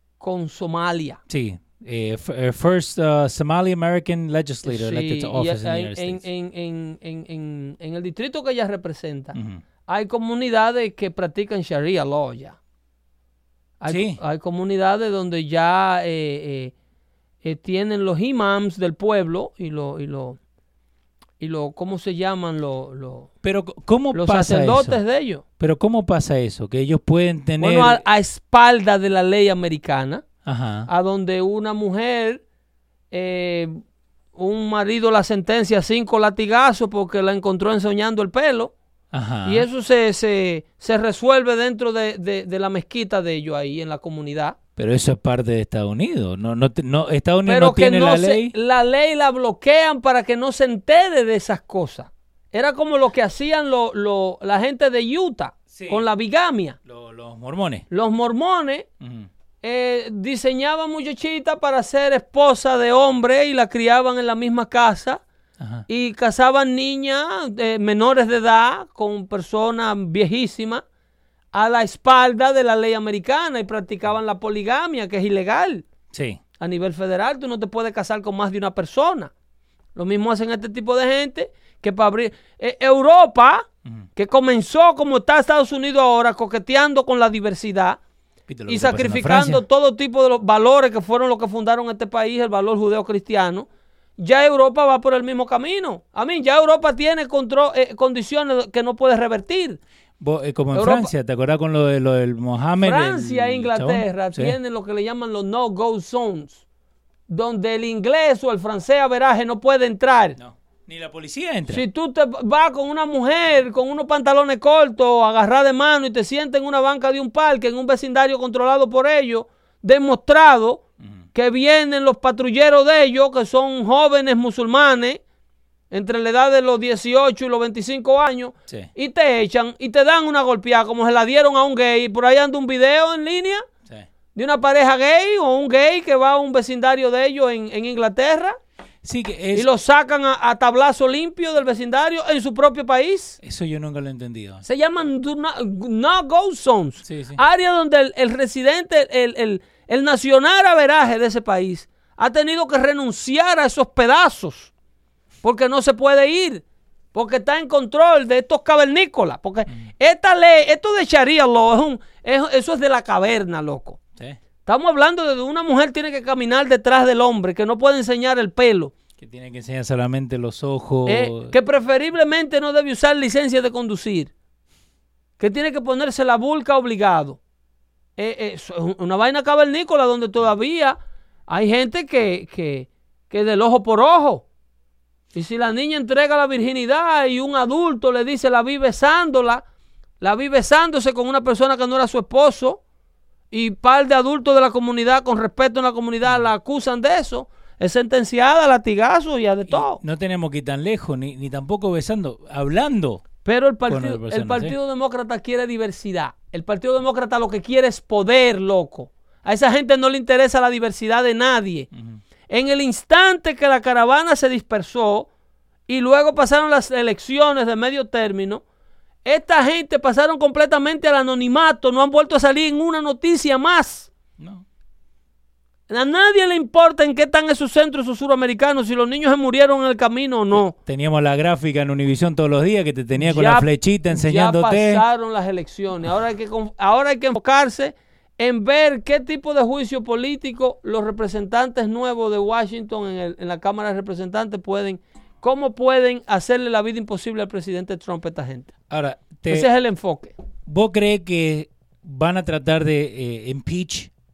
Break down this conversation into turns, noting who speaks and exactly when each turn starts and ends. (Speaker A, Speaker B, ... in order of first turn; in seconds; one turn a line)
Speaker A: 0.2-1.2
Speaker B: 1.3-6.2
Speaker A: 4.6-12.6
Speaker B: 9.3-9.6
Speaker A: 13.8-16.7
Speaker B: 13.9-14.2
Speaker A: 17.4-20.4
Speaker A: 21.4-23.3
Speaker B: 23.4-25.0
Speaker A: 24.1-25.4
Speaker B: 25.6-28.0
Speaker A: 27.6-30.2
Speaker B: 30.4-30.9
Speaker A: 30.9-32.4
Speaker A: 33.1-33.8
Speaker A: 34.3-38.7
Speaker B: 39.1-39.6
Speaker A: 39.4-44.5
Speaker B: 44.8-48.5
Speaker A: 47.4-56.8
Speaker B: 55.7-56.0
Speaker B: 56.9-57.8
Speaker A: 57.9-58.9
Speaker B: 59.0-59.3
Speaker A: 59.6-65.2
Speaker B: 65.6-65.8
Speaker A: 65.9-70.8
Speaker A: 71.5-75.8
Speaker B: 76.1-76.4
Speaker A: 76.6-79.3
Speaker A: 79.9-88.0
Speaker B: 88.5-89.6
Speaker A: 88.7-93.7
Speaker A: 94.2-99.8
Speaker B: 100.2-104.5
Speaker A: 100.7-101.1
Speaker A: 102.8-106.6
Speaker A: 107.3-110.4
Speaker B: 110.4-111.8
Speaker A: 111.7-120.8
Speaker A: 121.3-125.2
Speaker A: 125.9-133.6
Speaker A: 134.3-138.6
Speaker B: 139.0-139.7
Speaker A: 139.5-143.4
Speaker B: 143.4-144.6
Speaker A: 144.6-154.7
Speaker B: 147.0-147.4
Speaker A: 155.4-164.0
Speaker A: 164.7-168.9
Speaker B: 169.2-171.5
Speaker A: 171.1-174.3
Speaker A: 175.4-177.4
Speaker A: 178.2-181.0
Speaker A: 181.5-184.4
Speaker A: 185.3-189.6
Speaker A: 190.2-192.8
Speaker A: 193.5-200.0
Speaker B: 199.7-203.2
Speaker A: 203.4-211.9
Speaker B: 203.9-204.7
Speaker B: 211.9-212.2
Speaker A: 212.5-215.3
Speaker A: 215.9-218.6
Speaker A: 219.2-224.1
Speaker B: 224.4-224.6
Speaker A: 225.9-230.7
Speaker B: 230.6-235.0
Speaker A: 233.2-248.7
Speaker B: 248.9-249.7
Speaker A: 249.5-250.3
Speaker B: 250.7-254.1